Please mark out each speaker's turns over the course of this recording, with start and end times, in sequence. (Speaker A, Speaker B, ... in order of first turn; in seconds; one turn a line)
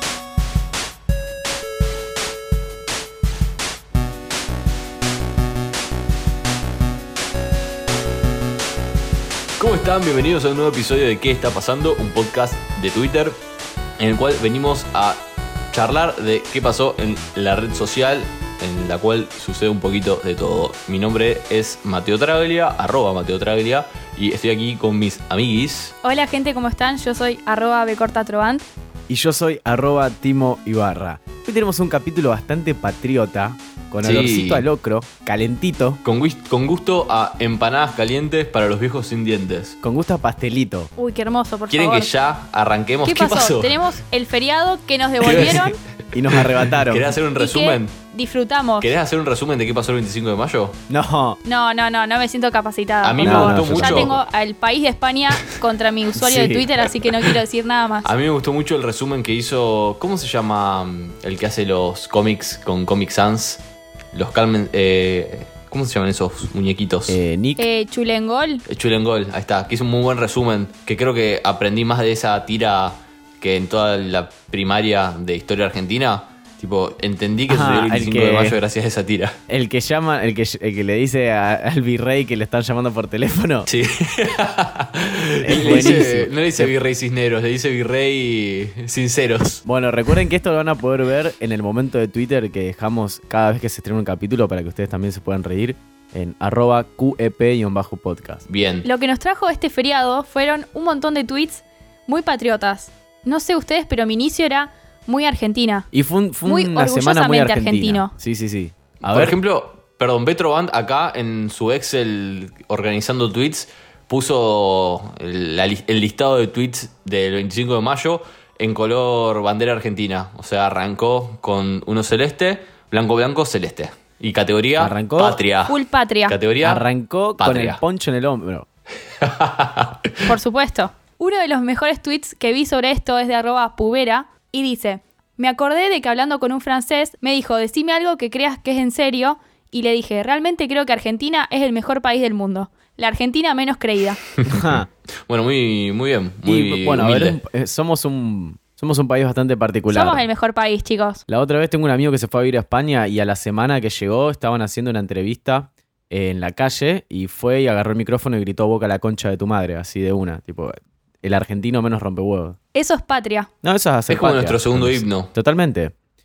Speaker A: 9.6-13.4
Speaker A: 14.0-15.2
Speaker A: 15.7-25.9
Speaker B: 26.0-28.6
Speaker C: 29.1-36.0
Speaker A: 34.0-34.6
Speaker A: 36.0-39.8
Speaker C: 39.8-40.9
Speaker B: 41.0-42.1
Speaker A: 41.7-43.9
Speaker B: 43.0-45.8
Speaker A: 45.2-47.9
Speaker C: 46.1-47.2
Speaker B: 47.4-48.9
Speaker A: 48.8-50.8
Speaker C: 50.9-51.4
Speaker B: 51.4-58.1
Speaker A: 53.0-54.2
Speaker C: 53.2-54.1
Speaker C: 56.1-56.7
Speaker A: 58.0-63.6
Speaker A: 64.1-67.2
Speaker C: 67.1-67.7
Speaker B: 67.6-68.6
Speaker A: 68.7-79.3
Speaker C: 77.5-78.6
Speaker C: 79.5-83.7
Speaker A: 83.7-89.6
Speaker C: 85.4-86.7
Speaker C: 89.6-98.4
Speaker A: 98.5-98.9
Speaker B: 98.8-105.9
Speaker C: 105.9-109.4
Speaker B: 106.5-108.1
Speaker A: 109.0-126.8
Speaker C: 124.8-125.4
Speaker B: 125.7-126.4
Speaker C: 126.6-128.7
Speaker A: 127.4-127.8
Speaker A: 129.2-130.1
Speaker B: 130.2-144.2
Speaker A: 144.4-147.4
Speaker C: 144.4-144.9
Speaker C: 146.4-150.2
Speaker B: 149.9-151.2
Speaker C: 151.3-162.6
Speaker B: 162.7-163.5
Speaker C: 163.6-165.9
Speaker A: 164.1-165.3